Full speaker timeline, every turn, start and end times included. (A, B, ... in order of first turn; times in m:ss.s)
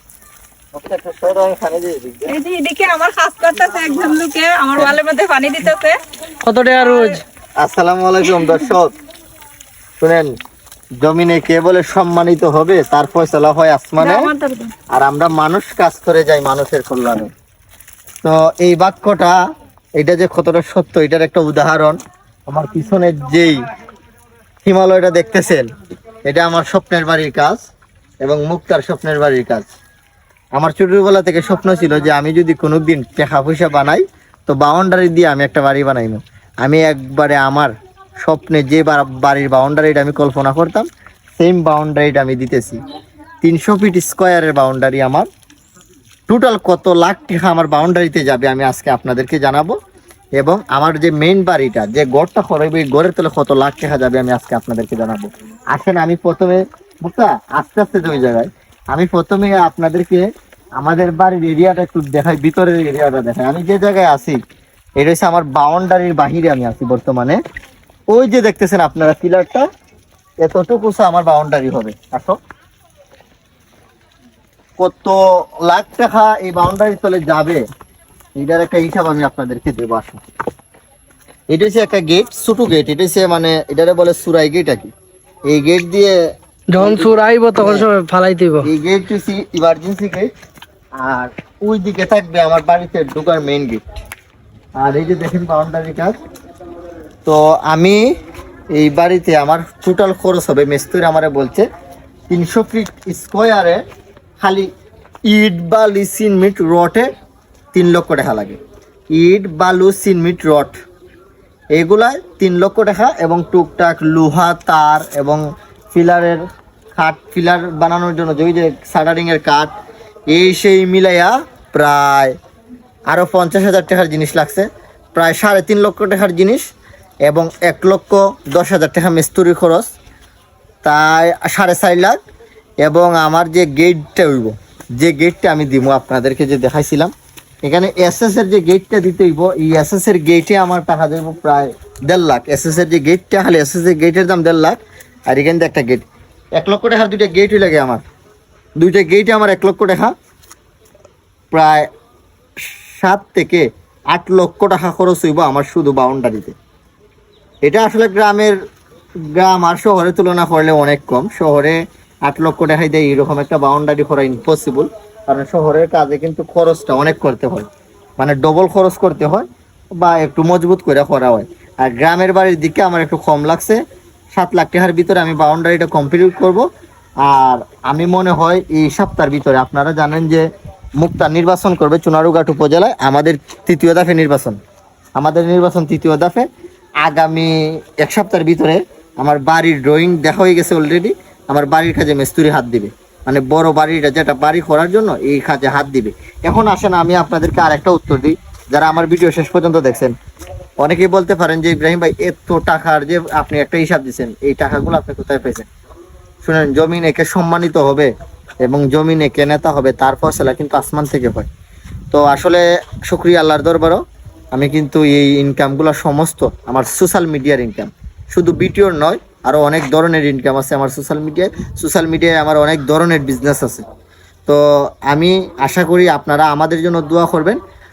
0:00.7-0:02.3 A
0:02.3-0:06.0 B
0:06.4-0:07.2 C
0:06.8-0:07.2 B
0:07.6-0:08.9 A
0:10.0-0:10.3 A
0:11.0-0:14.3 A
0:14.0-0:14.7 B
0:14.9-0:17.3 A
0:18.2-0:19.4 A
0:20.0-0:23.6 A
0:24.6-0:25.6 A
0:26.2-0:27.6 A
0:28.2-0:29.7 A
0:30.5-0:40.9 A
0:41.4-0:42.8 A
0:43.4-0:45.3 A
0:46.3-0:49.8 A
0:50.4-1:00.2 A
1:00.8-1:04.4 A
1:05.0-1:07.4 A
1:08.1-1:09.7 A
1:10.4-1:12.4 A
1:14.8-1:17.6 A
1:18.4-1:20.2 A
1:21.5-1:24.9 A
1:25.5-1:26.2 A
1:26.7-1:28.7 C
1:26.8-1:27.9 A
1:28.6-1:30.3 A
1:31.0-1:33.8 A
1:34.8-1:36.2 A
1:37.2-1:38.1 A
1:38.7-1:41.7 A
1:42.3-1:43.8 A
1:44.4-1:44.7 A
1:45.3-1:47.1 A
1:47.7-1:48.6 A
1:49.1-1:50.7 A
1:51.7-1:56.4 A
1:56.9-1:59.7 A
2:00.3-2:02.4 A
2:03.1-2:06.6 A
2:07.2-2:09.9 A
2:10.8-2:12.2 A
2:12.8-2:17.1 A
2:17.6-2:28.0 A
2:28.8-2:30.1 A
2:31.5-2:31.9 A
2:32.6-2:36.5 A
2:37.6-2:38.5 A
2:39.3-2:49.4 A
2:50.0-2:53.8 A
2:54.3-2:56.6 A
2:57.2-3:00.5 A
3:01.0-3:04.6 A
3:05.2-3:06.5 A
3:07.0-3:20.1 A
3:20.8-3:25.7 A
3:26.4-3:28.1 A
3:28.6-3:31.5 A
3:32.1-3:34.0 A
3:34.5-3:43.8 A
3:44.4-3:47.6 A